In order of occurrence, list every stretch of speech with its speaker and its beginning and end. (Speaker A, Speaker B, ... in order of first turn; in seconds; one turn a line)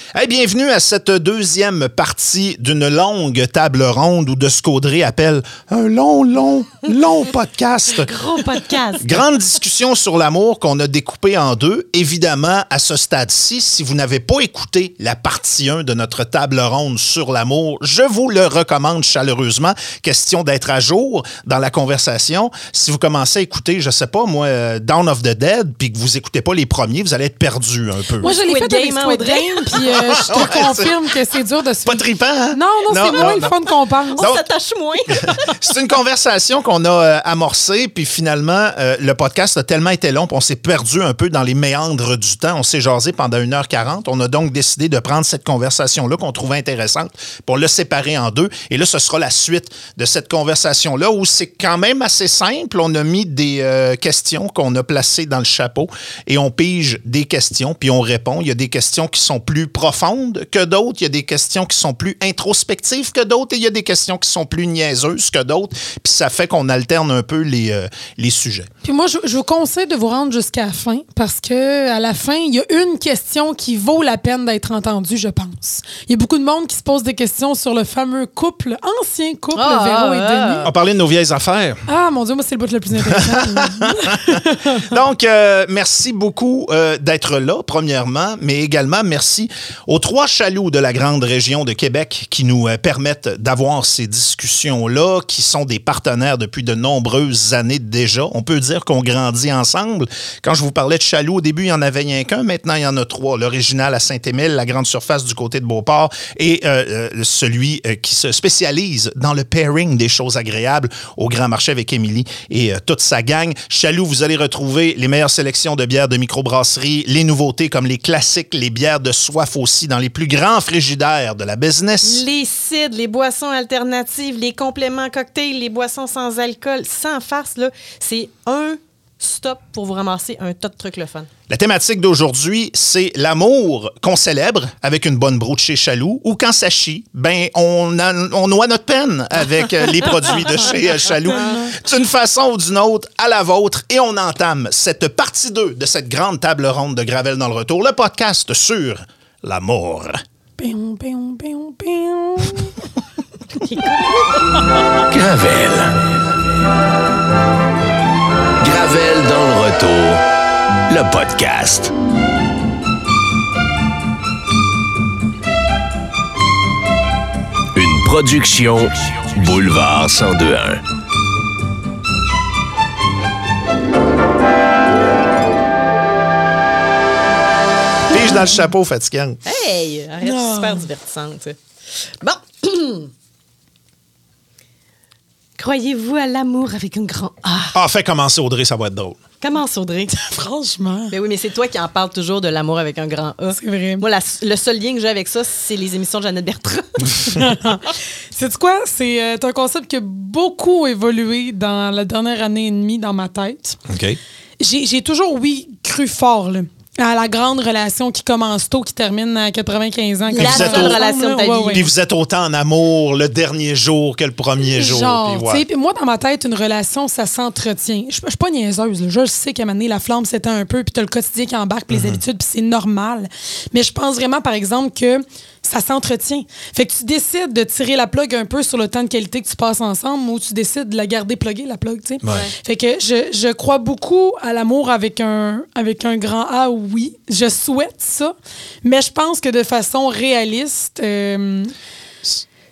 Speaker A: 0.1-8.1
Speaker B: 8.0-9.2
Speaker A: 9.0-28.3
Speaker B: 28.2-30.0
Speaker C: 28.2-34.2
Speaker A: 30.1-30.9
Speaker A: 31.9-33.5
Speaker B: 34.1-35.4
Speaker A: 34.2-34.4
Speaker A: 35.1-68.7
Speaker C: 68.8-80.7
Speaker B: 79.5-80.7
Speaker A: 80.7-81.8
Speaker C: 81.9-84.4
Speaker A: 83.0-122.2
Speaker B: 122.0-131.3
Speaker A: 131.5-150.2
Speaker C: 141.4-141.7
Speaker C: 150.6-152.7
Speaker B: 153.6-154.2
Speaker D: 155.1-156.1
Speaker D: 158.6-160.2
Speaker D: 160.9-161.9
Speaker D: 167.8-170.8
Speaker A: 178.1-179.4
Speaker C: 178.1-178.5
Speaker B: 179.5-181.6
Speaker C: 180.2-180.9
Speaker B: 182.2-183.1
Speaker B: 185.6-187.8
Speaker A: 187.7-189.2
Speaker B: 189.4-190.2
Speaker C: 190.1-191.2
Speaker B: 191.1-197.4
Speaker C: 193.5-194.1
Speaker C: 197.2-203.8
Speaker A: 203.9-204.2
Speaker C: 204.6-211.8
Speaker B: 210.3-211.9
Speaker A: 210.4-211.0
Speaker A: 211.7-215.6
Speaker C: 214.6-238.3
Speaker A: 221.9-222.2
Speaker A: 232.2-232.5
Speaker B: 232.3-232.5
Speaker C: 238.8-241.7